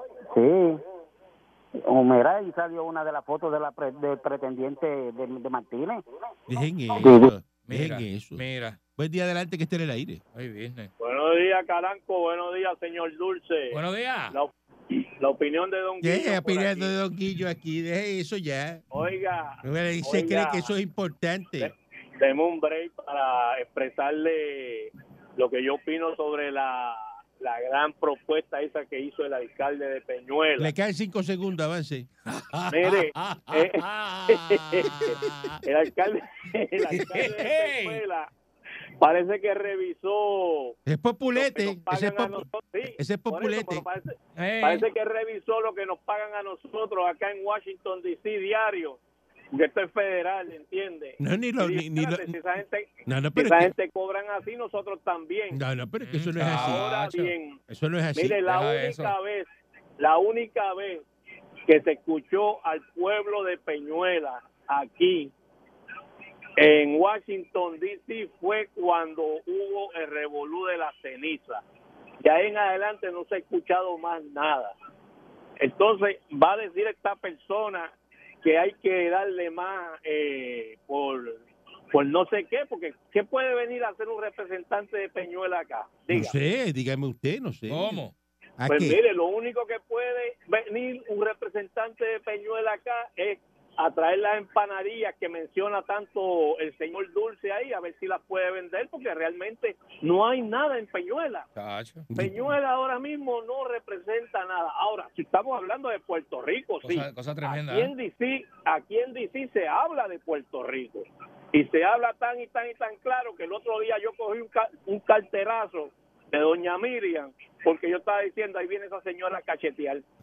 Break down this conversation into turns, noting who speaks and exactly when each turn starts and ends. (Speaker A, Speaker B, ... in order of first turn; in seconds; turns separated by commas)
Speaker A: 0.3-0.8, Speaker A: 1.9-6.0, Speaker B: 6.5-8.4, Speaker A: 6.9-7.3, Speaker C: 7.7-8.8, Speaker B: 9.0-10.2, Speaker C: 10.3-10.9, Speaker D: 11.0-13.8, Speaker C: 13.7-14.4, Speaker D: 14.3-16.9, Speaker B: 16.0-18.8, Speaker D: 18.9-20.7, Speaker B: 19.6-21.7, Speaker D: 21.6-30.7, Speaker B: 30.6-32.1, Speaker C: 32.2-34.9, Speaker D: 32.7-38.3, Speaker C: 36.9-38.0, Speaker D: 39.0-40.8, Speaker B: 40.9-42.5, Speaker D: 41.3-49.0, Speaker B: 43.0-43.9, Speaker C: 44.4-44.9, Speaker D: 49.5-55.6, Speaker B: 51.2-52.4, Speaker B: 53.0-53.7, Speaker B: 55.5-56.8, Speaker C: 56.0-57.3, Speaker D: 56.4-57.6, Speaker B: 57.7-58.4, Speaker D: 58.1-61.0, Speaker C: 58.5-59.1, Speaker D: 61.7-65.3, Speaker D: 66.6-71.6, Speaker D: 72.2-74.7, Speaker D: 75.6-81.4, Speaker D: 81.9-86.3, Speaker B: 86.1-88.0, Speaker C: 87.7-88.1, Speaker B: 88.6-89.0, Speaker D: 88.7-101.5, Speaker C: 101.5-102.1, Speaker B: 102.1-102.5, Speaker D: 102.1-120.0, Speaker C: 106.8-107.9